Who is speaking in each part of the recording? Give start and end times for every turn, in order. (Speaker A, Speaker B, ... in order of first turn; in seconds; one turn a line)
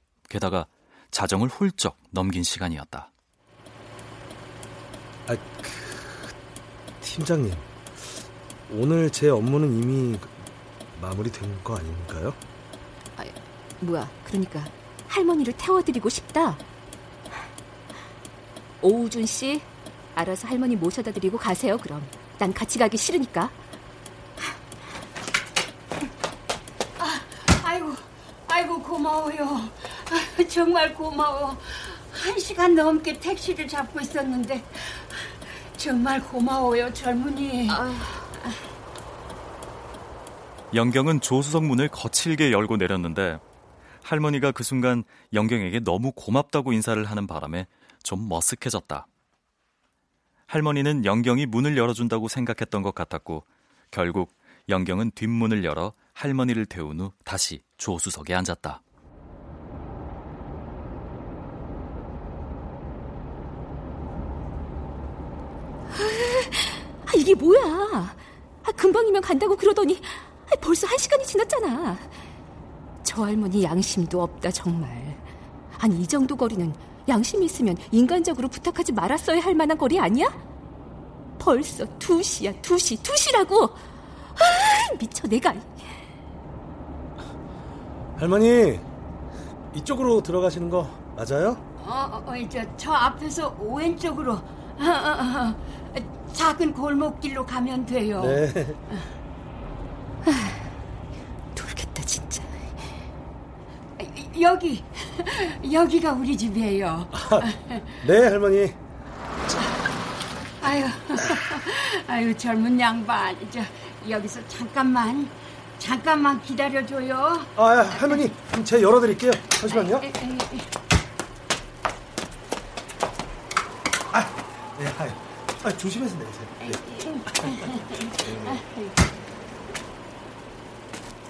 Speaker A: 0.3-3.1
Speaker B: 5.3-6.3
Speaker B: 7.0-7.7
Speaker B: 8.7-10.4
Speaker B: 10.9-12.4
Speaker C: 13.2-16.6
Speaker C: 18.8-23.5
Speaker D: 27.0-37.9
Speaker C: 37.7-38.2
Speaker A: 40.7-43.4
Speaker A: 44.0-49.1
Speaker A: 50.5-58.8
Speaker C: 65.9-72.1
Speaker C: 73.0-75.2
Speaker C: 75.8-80.4
Speaker C: 81.4-83.8
Speaker C: 84.3-85.7
Speaker B: 88.2-88.8
Speaker B: 89.7-91.6
Speaker D: 91.8-98.4
Speaker B: 98.2-98.8
Speaker C: 100.2-100.6
Speaker C: 101.5-102.6
Speaker D: 104.0-108.0
Speaker B: 107.1-108.8
Speaker D: 110.6-118.1
Speaker B: 117.5-120.1
Speaker D: 119.7-120.7
Speaker B: 124.1-126.8
Speaker D: 126.6-129.0
Speaker B: 128.2-128.6